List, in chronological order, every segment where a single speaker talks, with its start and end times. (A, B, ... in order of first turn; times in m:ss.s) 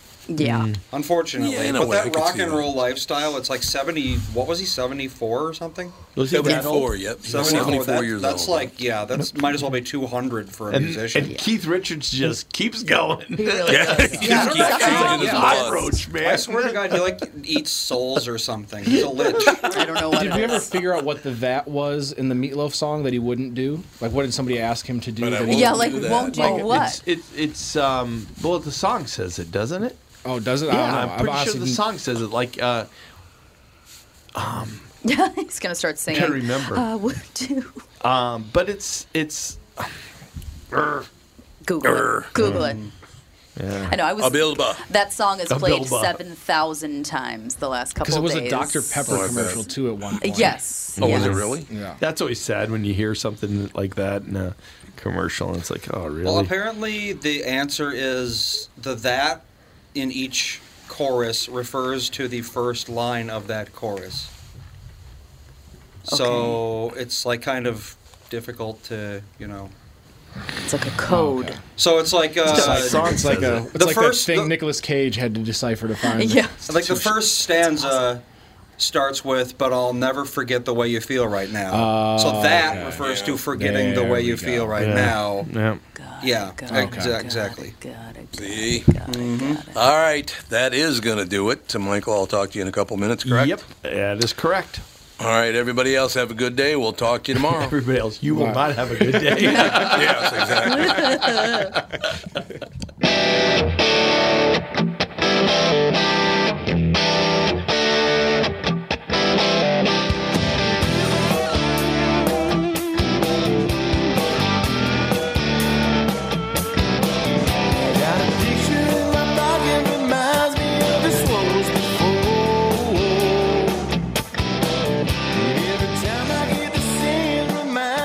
0:00.3-0:00.7 A
0:00.4-0:00.8 B
0:00.9-0:06.6 C
0:01.4-0:02.7 D
0:06.2-0:07.8 B
0:06.3-0:08.8 D
0:07.2-0:11.3 C
0:10.7-0:17.2 B
0:13.4-0:15.6 A
0:13.7-0:16.0 D
0:14.2-0:19.8 C
0:18.9-0:20.5 B
0:19.6-0:20.7 A
0:20.1-0:26.8 E
0:25.2-0:26.8 D
0:25.5-0:27.0 A
0:26.8-0:30.0 B
0:30.2-0:31.8 E
0:30.7-0:32.9 B
0:34.4-0:34.9 B
0:35.0-0:37.8 A
0:36.1-0:36.9 B
0:38.0-0:39.9 B
0:40.7-0:41.1 B
0:41.6-0:42.8 A
0:41.8-0:42.4 D
0:42.4-0:42.7 B
0:42.4-0:42.9 C
0:43.6-0:44.0 B
0:43.9-0:49.5 A
0:44.2-0:44.8 D
0:45.5-0:46.2 B
0:48.0-0:52.0 E
0:49.1-0:49.6 D
0:50.2-0:51.4 A
0:51.0-0:51.7 D
0:51.0-0:56.5 B
0:56.2-1:04.3 C
1:06.1-1:09.7 C
1:06.1-1:06.6 A
1:10.6-1:11.6 A
1:11.0-1:11.6 E
1:11.8-1:14.6 C
1:12.5-1:13.7 B
1:12.5-1:17.3 E
1:16.1-1:16.6 A
1:16.7-1:18.2 C
1:17.5-1:18.0 A
1:18.8-1:25.5 C
1:21.7-1:24.9 E
1:22.6-1:23.5 D
1:24.8-1:25.8 B
1:25.9-1:29.9 A
1:26.2-1:27.8 C
1:26.7-1:27.2 E
1:28.3-1:28.9 D
1:29.0-1:29.6 C
1:29.7-1:33.6 D
1:33.3-1:34.8 B
1:35.2-1:37.8 D
1:37.4-1:42.0 B
1:38.3-1:39.3 E
1:39.4-1:39.9 A
1:39.7-1:41.2 D
1:40.6-1:41.8 A
1:58.6-2:00.4 B
2:01.0-2:02.5 B
2:05.6-2:06.4 B
2:07.1-2:07.6 B